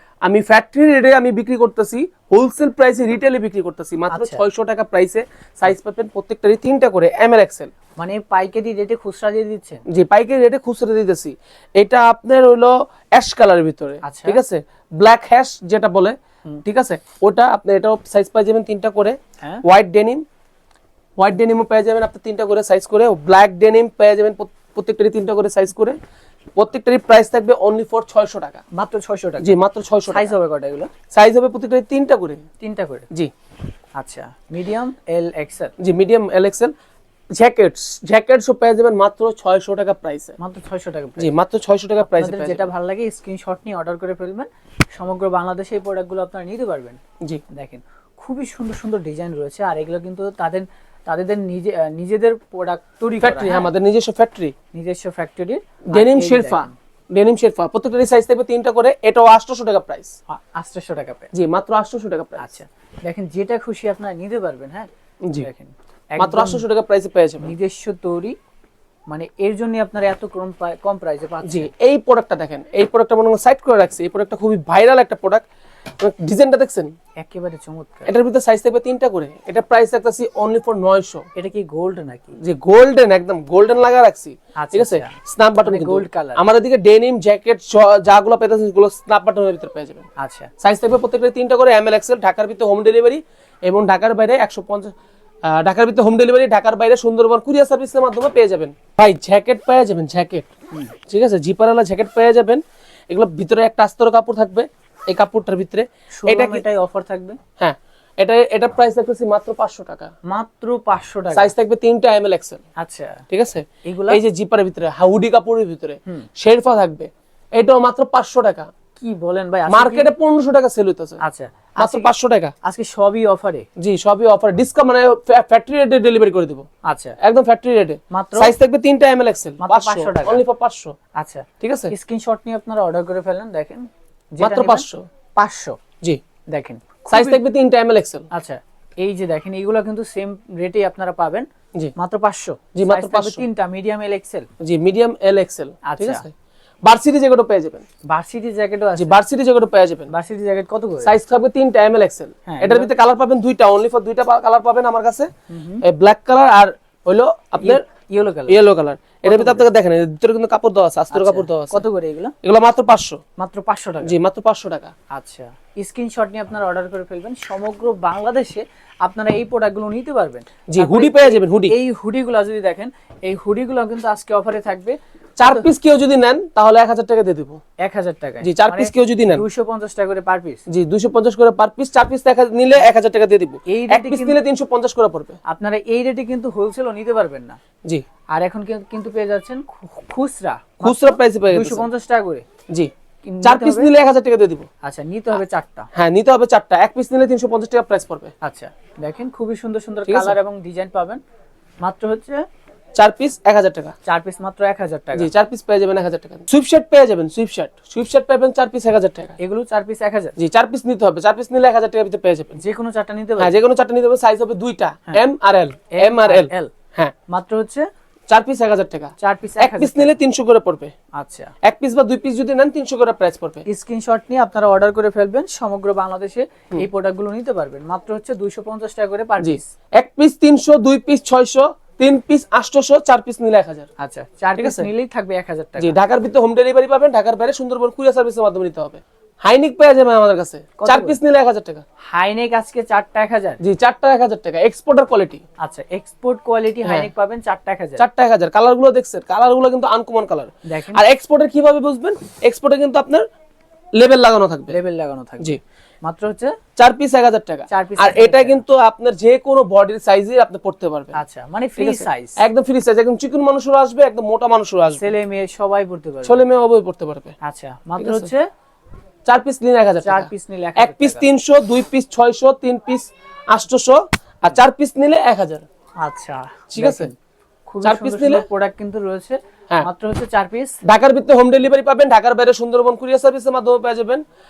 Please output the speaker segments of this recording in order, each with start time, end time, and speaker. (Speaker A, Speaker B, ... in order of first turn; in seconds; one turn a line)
Speaker A: 0.2-7.7
Speaker B: 4.1-4.4
Speaker B: 8.0-9.8
Speaker A: 9.9-20.2
Speaker B: 14.0-14.4
Speaker A: 21.2-26.0
Speaker A: 26.6-28.6
Speaker B: 28.7-29.6
Speaker A: 29.4-30.3
Speaker B: 30.1-30.9
Speaker A: 31.1-32.4
Speaker B: 32.6-33.1
Speaker B: 34.0-35.7
Speaker A: 35.8-36.7
Speaker A: 37.3-40.4
Speaker B: 40.4-41.3
Speaker A: 41.2-42.7
Speaker B: 42.0-47.0
Speaker B: 47.5-53.7
Speaker A: 53.2-54.5
Speaker B: 54.7-56.7
Speaker A: 55.9-60.1
Speaker B: 60.3-61.3
Speaker A: 61.3-62.4
Speaker B: 62.4-64.9
Speaker B: 65.4-66.7
Speaker A: 66.2-67.5
Speaker B: 67.4-68.4
Speaker B: 69.1-71.7
Speaker A: 71.4-75.5
Speaker A: 76.0-76.9
Speaker B: 77.2-78.1
Speaker A: 78.1-81.3
Speaker B: 81.3-82.4
Speaker A: 82.4-90.1
Speaker B: 84.6-86.4
Speaker B: 90.2-90.5
Speaker A: 90.6-94.9
Speaker A: 95.5-100.5
Speaker A: 101.1-106.6
Speaker B: 106.1-107.4
Speaker A: 107.6-110.1
Speaker B: 110.2-111.5
Speaker A: 111.3-112.6
Speaker B: 112.8-113.2
Speaker A: 113.3-118.7
Speaker B: 113.8-114.2
Speaker B: 119.0-120.1
Speaker A: 119.7-121.2
Speaker B: 121.2-122.1
Speaker A: 121.8-122.5
Speaker B: 122.6-123.7
Speaker A: 123.8-126.7
Speaker B: 126.9-127.2
Speaker A: 127.2-131.0
Speaker B: 128.1-128.5
Speaker B: 129.6-130.4
Speaker B: 131.2-135.8
Speaker A: 131.6-131.9
Speaker A: 134.4-135.1
Speaker B: 136.5-137.4
Speaker A: 137.1-138.3
Speaker B: 138.3-144.5
Speaker A: 142.7-143.4
Speaker A: 144.6-146.3
Speaker B: 145.8-146.2
Speaker A: 146.8-147.8
Speaker B: 148.1-149.2
Speaker A: 149.0-150.1
Speaker B: 150.1-151.1
Speaker A: 151.0-155.3
Speaker B: 152.5-152.9
Speaker B: 155.5-155.8
Speaker A: 155.8-157.8
Speaker B: 157.6-158.6
Speaker A: 158.5-161.8
Speaker B: 159.2-159.7
Speaker B: 161.1-162.3
Speaker A: 162.4-163.2
Speaker B: 163.4-164.2
Speaker A: 164.0-164.9
Speaker B: 165.1-175.7
Speaker A: 170.7-171.7
Speaker A: 175.4-177.6
Speaker B: 177.8-180.6
Speaker A: 178.4-179.4
Speaker A: 180.7-185.4
Speaker B: 183.7-184.4
Speaker B: 185.5-187.6
Speaker B: 188.3-192.4
Speaker A: 190.8-191.9
Speaker B: 193.2-193.9
Speaker A: 193.4-194.7
Speaker B: 194.8-195.9
Speaker A: 195.9-198.3
Speaker B: 198.4-201.2
Speaker A: 200.1-200.4
Speaker B: 201.8-202.4
Speaker A: 203.0-203.9
Speaker B: 204.1-205.3
Speaker A: 205.2-209.4
Speaker B: 209.4-210.4
Speaker A: 210.4-212.6
Speaker B: 212.6-213.6
Speaker A: 213.4-217.1
Speaker B: 215.9-216.7
Speaker B: 217.3-217.9
Speaker A: 218.3-220.9
Speaker B: 219.2-220.1
Speaker B: 221.2-221.5
Speaker A: 221.6-223.7
Speaker B: 223.7-229.7
Speaker A: 229.4-233.9
Speaker B: 234.0-236.0
Speaker A: 234.6-234.9
Speaker A: 235.8-241.8
Speaker B: 240.8-241.2
Speaker B: 242.1-243.6
Speaker A: 243.6-245.4
Speaker B: 245.6-248.1
Speaker A: 248.0-253.3
Speaker B: 250.7-251.0
Speaker A: 254.0-254.8
Speaker B: 254.7-256.6
Speaker A: 256.8-261.2
Speaker B: 257.7-258.6
Speaker B: 261.1-262.4
Speaker A: 261.8-265.1
Speaker B: 265.0-266.4
Speaker A: 266.2-267.3
Speaker B: 267.4-268.5
Speaker A: 268.0-268.3
Speaker A: 269.3-275.6
Speaker B: 270.0-271.3
Speaker B: 276.0-277.1
Speaker A: 276.7-277.1
Speaker B: 277.7-280.8
Speaker A: 277.8-278.5
Speaker A: 280.9-284.2